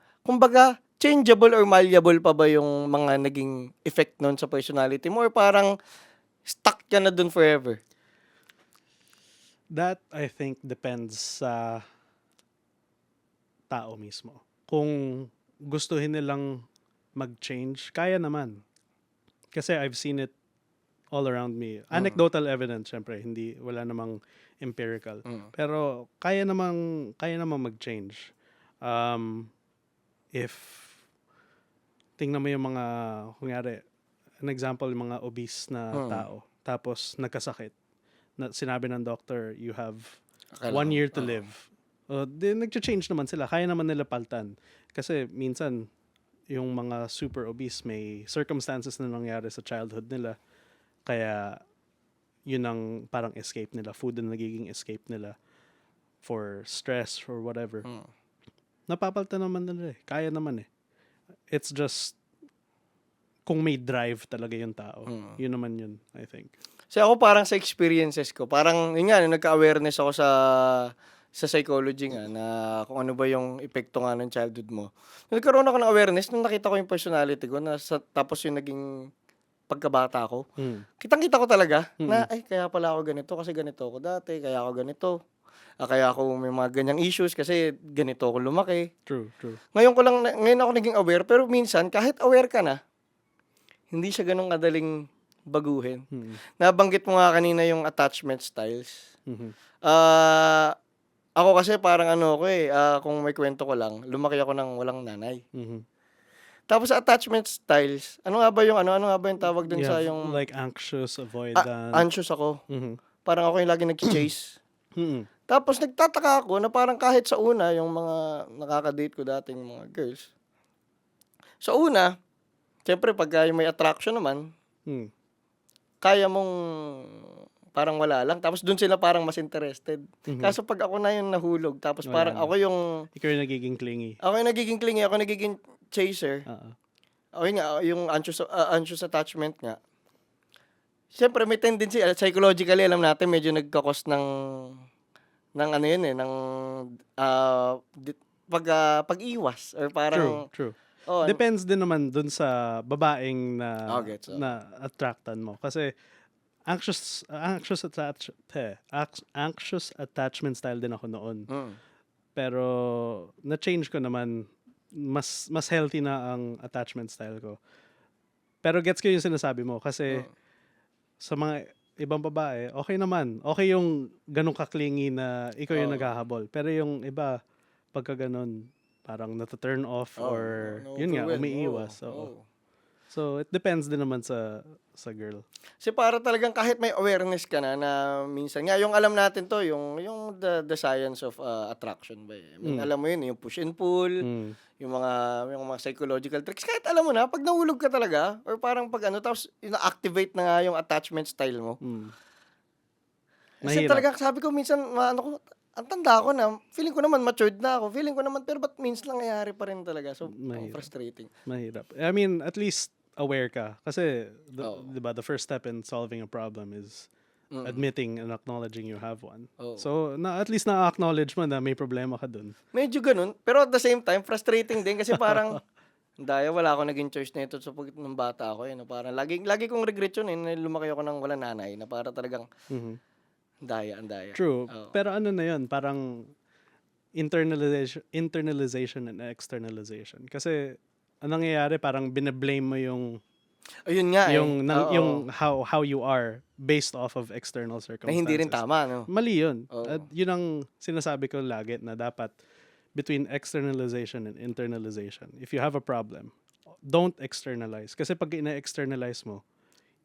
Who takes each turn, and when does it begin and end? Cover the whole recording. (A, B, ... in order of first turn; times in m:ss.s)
0:00.2-0:05.7 A
0:06.4-0:07.8 A
0:09.7-0:11.8 B
0:13.7-0:16.5 B
0:17.2-0:18.6 B
0:19.5-0:20.3 B
0:21.1-0:28.2 B
0:21.9-0:22.2 A
0:25.2-0:25.5 A
0:28.8-0:29.5 B
0:30.4-0:31.0 B
0:32.2-0:33.8 B
0:34.4-0:37.7 B
0:35.9-0:36.2 A
0:38.4-0:45.8 B
0:40.6-0:41.4 A
0:46.5-0:50.4 B
0:51.0-0:51.6 B
0:52.5-0:55.3 B
0:56.2-0:57.8 B
0:57.8-0:58.1 A
0:58.9-1:00.7 B
1:01.5-1:02.2 B
1:03.5-1:06.5 B
1:05.1-1:05.4 A
1:06.9-1:18.8 A
1:19.7-1:20.4 A
1:20.6-1:20.8 B
1:21.0-1:25.1 A
1:22.0-1:22.3 B
1:25.8-1:28.9 A
1:29.1-1:29.6 B
1:29.7-1:32.8 A
1:33.9-1:34.9 A
1:35.5-1:36.0 A
1:36.1-1:36.4 B
1:36.6-1:39.0 A
1:39.3-1:39.5 B
1:39.8-1:40.7 A
1:41.4-1:45.4 A
1:45.5-1:45.8 B
1:46.7-1:50.4 A
1:49.7-1:52.0 B
1:51.6-1:52.6 A
1:52.7-1:53.0 B
1:53.2-1:54.6 A
1:55.0-1:55.3 B
1:55.5-2:00.3 A
2:01.6-2:02.1 A
2:02.8-2:04.4 A
2:06.0-2:12.8 A
2:10.3-2:10.6 B
2:12.0-2:12.5 B
2:13.2-2:14.2 B
2:14.2-2:16.4 A
2:16.5-2:16.7 B
2:17.4-2:19.8 A
2:21.1-2:24.8 A
2:25.6-2:30.4 A
2:30.1-2:35.9 B
2:31.0-2:31.4 A
2:33.9-2:34.5 A
2:36.7-2:41.5 B
2:41.5-2:41.8 A
2:42.4-2:47.6 B
2:48.6-2:50.3 B
2:51.2-2:57.4 B
2:55.7-2:56.1 A
2:57.9-3:02.3 B
3:00.2-3:02.4 A
3:03.1-3:05.4 B
3:05.8-3:14.2 A
3:14.2-3:14.5 B
3:14.8-3:21.8 A
3:21.8-3:22.1 B
3:23.6-3:31.3 A
3:23.6-3:24.0 B
3:30.3-3:30.9 B
3:31.4-3:37.1 B
3:34.6-3:34.9 A
3:37.5-3:37.8 A
3:37.6-3:42.5 B
3:39.6-3:39.9 A
3:42.7-3:45.6 A
3:45.1-3:45.6 B
3:46.2-3:52.5 A
3:52.7-3:53.0 B
3:53.6-3:55.0 A
3:54.3-3:56.0 B
3:57.2-4:00.6 B
4:01.2-4:03.2 B
4:03.8-4:05.2 A
4:04.3-4:12.3 B
4:08.0-4:09.1 A
4:09.7-4:10.0 A
4:13.0-4:16.3 B
4:16.8-4:19.4 B